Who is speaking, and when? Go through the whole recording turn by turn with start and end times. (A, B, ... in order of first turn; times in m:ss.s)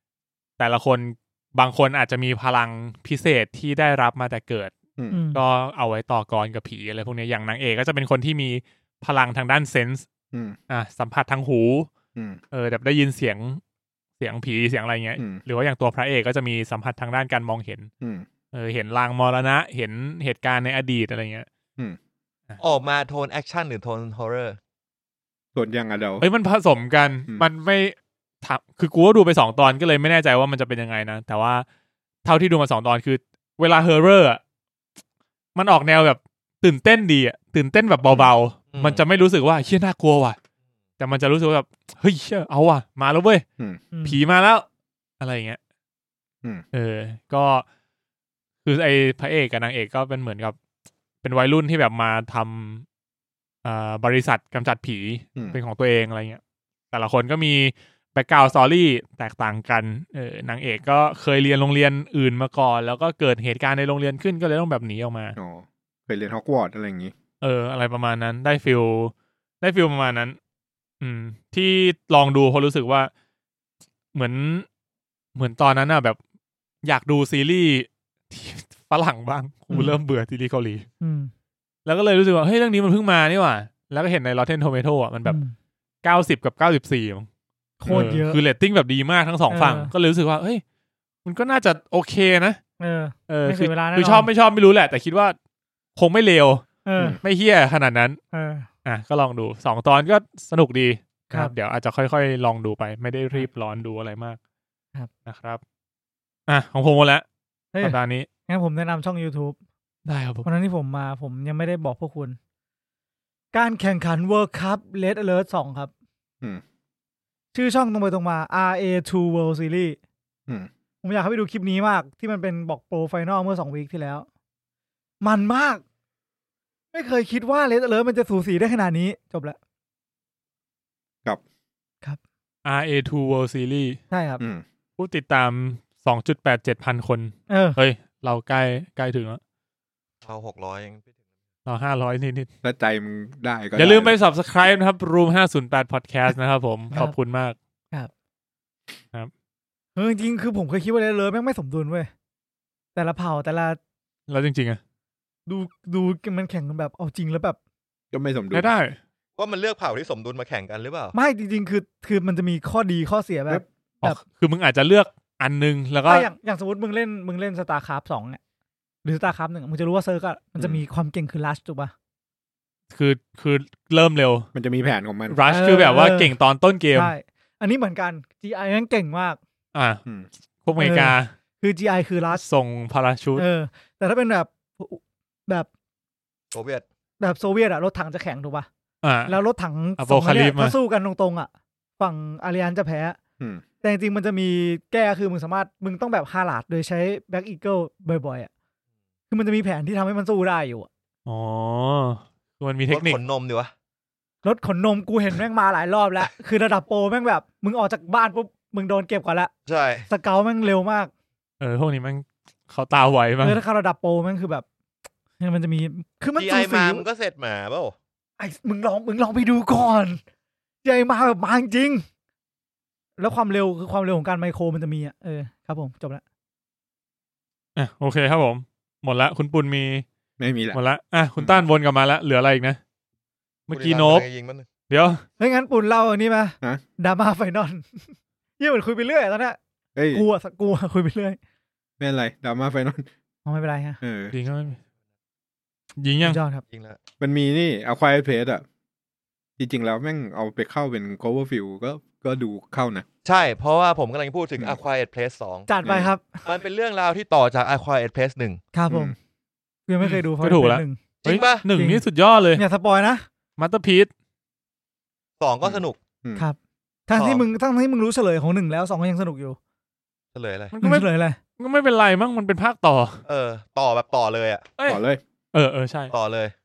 0:00.6-0:04.8 A
0:05.1-0:05.4 B
0:05.3-0:10.0 A
0:10.7-0:11.9 A
0:12.5-0:13.6 A
0:14.2-0:17.9 A
0:18.5-0:21.5 A
0:22.6-0:24.6 C
0:25.5-0:26.2 D
0:26.2-0:31.6 A
0:32.2-0:34.4 A
0:35.5-0:40.4 A
0:38.7-0:39.0 C
0:41.0-0:43.4 A
0:43.9-0:44.2 B
0:44.0-0:44.6 A
0:45.2-0:45.6 A
0:46.7-0:47.6 A
0:48.6-0:50.6 A
0:51.2-0:52.8 A
0:53.6-0:56.4 A
0:56.9-1:05.4 A
1:05.4-1:07.1 D
1:07.4-1:10.4 A
1:11.0-1:13.1 A
1:14.1-1:14.6 A
1:15.3-1:16.2 A
1:16.8-1:20.8 A
1:19.7-1:20.0 B
1:21.0-1:21.3 B
1:21.8-1:25.4 A
1:25.2-1:25.5 B
1:26.0-1:27.3 A
1:27.8-1:28.4 B
1:27.9-1:30.6 A
1:29.5-1:29.9 B
1:31.2-1:32.6 A
1:32.8-1:34.3 B
1:33.3-1:35.4 A
1:36.0-1:36.6 A
1:36.8-1:37.2 B
1:37.2-1:38.2 A
1:38.3-1:38.7 B
1:38.8-1:44.4 A
1:45.2-1:45.6 A
1:46.5-1:47.2 A
1:47.8-1:48.3 A
1:48.5-1:49.6 B
1:50.0-1:50.4 A
1:50.4-1:52.4 B
1:53.5-1:55.9 B
1:57.5-2:00.0 B
2:01.0-2:04.2 B
2:05.2-2:05.8 B
2:06.9-2:09.6 B
2:12.6-2:14.0 A
2:14.1-2:14.4 B
2:15.0-2:19.4 A
2:17.5-2:17.8 B
2:20.2-2:21.1 C
2:21.6-2:22.5 A
2:22.6-2:24.2 D
2:23.8-2:27.6 A
2:30.0-2:32.1 B
2:32.9-2:33.8 B
2:34.3-2:34.8 A
2:35.5-2:37.6 B
2:38.1-2:38.7 D
2:38.5-2:39.0 A
2:39.4-2:41.1 C
2:41.1-2:44.2 B
2:44.0-2:46.3 A
2:46.1-2:48.4 B
2:49.0-2:51.9 B
2:52.9-2:54.5 A
2:54.5-2:55.4 D
2:55.3-2:57.1 A
2:55.5-2:56.3 B
2:56.9-2:59.4 B
2:59.7-3:00.0 A
3:00.6-3:01.3 A
3:00.8-3:02.4 B
3:02.3-3:03.4 A
3:03.4-3:05.7 B
3:06.5-3:06.8 C
3:07.2-3:08.7 B
3:09.0-3:09.4 A
3:09.3-3:13.2 B
3:10.0-3:10.7 A
3:13.8-3:18.5 B
3:19.3-3:20.9 B
3:21.2-3:23.2 A
3:22.9-3:23.7 C
3:24.4-3:29.5 B
3:29.6-3:30.1 C
3:30.1-3:31.1 B
3:31.6-3:33.6 A
3:33.4-3:34.6 B
3:35.4-3:37.0 B
3:36.4-3:38.0 C
3:38.4-3:40.2 B
3:40.8-3:42.0 B
3:43.2-3:46.2 B
3:47.8-3:50.0 A
3:50.4-3:50.8 D
3:50.7-3:52.8 A
3:53.7-3:54.2 A
3:53.7-3:54.7 C
3:54.9-3:55.2 A
3:55.4-3:58.0 B
3:58.6-3:59.6 B
4:00.0-4:00.2 D
4:00.1-4:01.4 B
4:02.0-4:03.0 D
4:03.4-4:04.0 B
4:04.0-4:04.3 D
4:04.3-4:04.8 A
4:06.0-4:06.4 A
4:06.2-4:06.6 B
4:06.7-4:07.0 C
4:07.2-4:08.6 D
4:09.6-4:13.0 D
4:13.2-4:15.7 C
4:15.7-4:16.4 B
4:16.4-4:18.6 C
4:18.7-4:19.1 B
4:18.9-4:19.1 D
4:19.9-4:21.0 B
4:20.0-4:22.6 A
4:21.2-4:21.6 C
4:21.7-4:22.0 B
4:22.6-4:23.2 B
4:23.6-4:24.1 A
4:25.4-4:26.0 C
4:25.6-4:26.4 D
4:27.1-4:29.6 B
4:27.1-4:27.4 C
4:30.3-4:30.7 C
4:30.7-4:33.2 A
4:30.8-4:31.4 B
4:33.2-4:34.7 C
4:34.9-4:35.2 D
4:35.5-4:36.1 A
4:36.1-4:36.5 C